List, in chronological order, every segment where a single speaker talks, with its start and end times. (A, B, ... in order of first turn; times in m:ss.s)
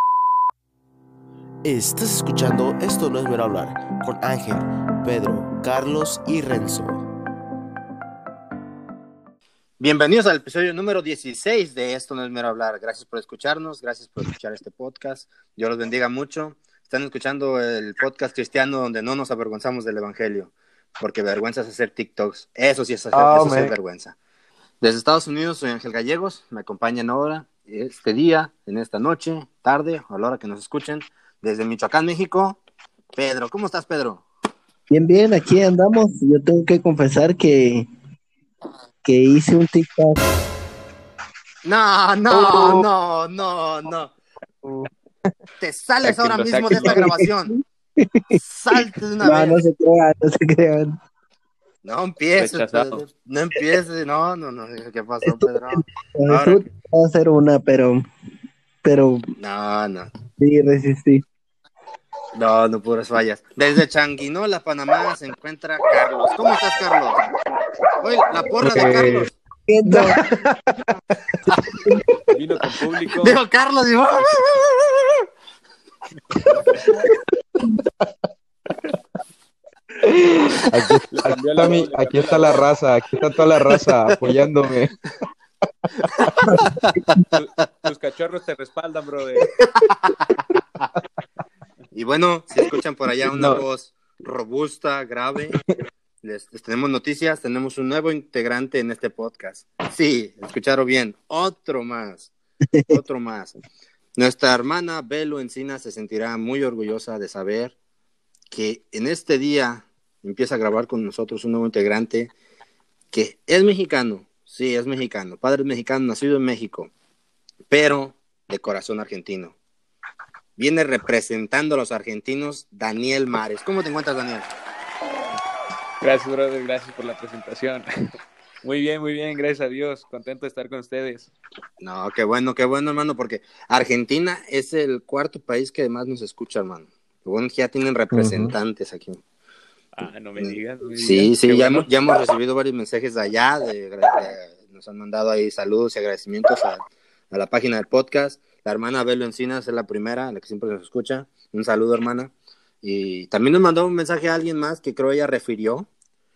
0:01.6-0:07.0 A
0:09.8-0:24.2 B
0:23.1-0:23.7 C
0:24.8-0:32.6 B
0:33.2-0:34.2 B
0:34.9-0:37.9 D
0:39.0-0:40.2 D
0:41.6-0:44.1 B
0:42.3-0:42.8 C
0:44.6-0:44.9 C
0:45.6-0:47.5 B
0:46.0-0:47.0 E
0:46.7-0:51.0 D
0:48.4-0:49.6 B
0:51.8-0:56.6 B
0:52.4-0:53.0 E
0:55.2-0:58.0 D
0:58.8-0:59.2 D
0:59.4-1:00.1 B
1:00.4-1:01.2 D
1:02.3-1:07.2 B
1:08.0-1:09.3 B
1:08.6-1:09.3 C
1:09.7-1:10.2 D
1:09.9-1:11.4 C
1:11.7-1:12.0 D
1:12.3-1:13.4 E
1:13.2-1:14.8 B
1:16.5-1:16.9 E
1:20.0-1:25.0 C
1:21.1-1:22.5 E
1:27.3-1:29.5 E
1:29.7-1:30.1 B
1:31.9-1:35.6 B
1:33.3-1:33.6 C
1:36.2-1:42.3 B
1:42.9-1:43.5 B
1:44.2-1:47.7 B
1:48.5-1:52.3 B
1:53.1-1:56.9 B
1:57.7-1:59.5 B
2:00.6-2:04.5 B
2:06.0-2:07.9 E
2:08.6-2:11.3 E
2:11.8-2:19.2 B
2:18.1-2:18.6 C
2:19.9-2:22.0 E
2:20.4-2:35.9 B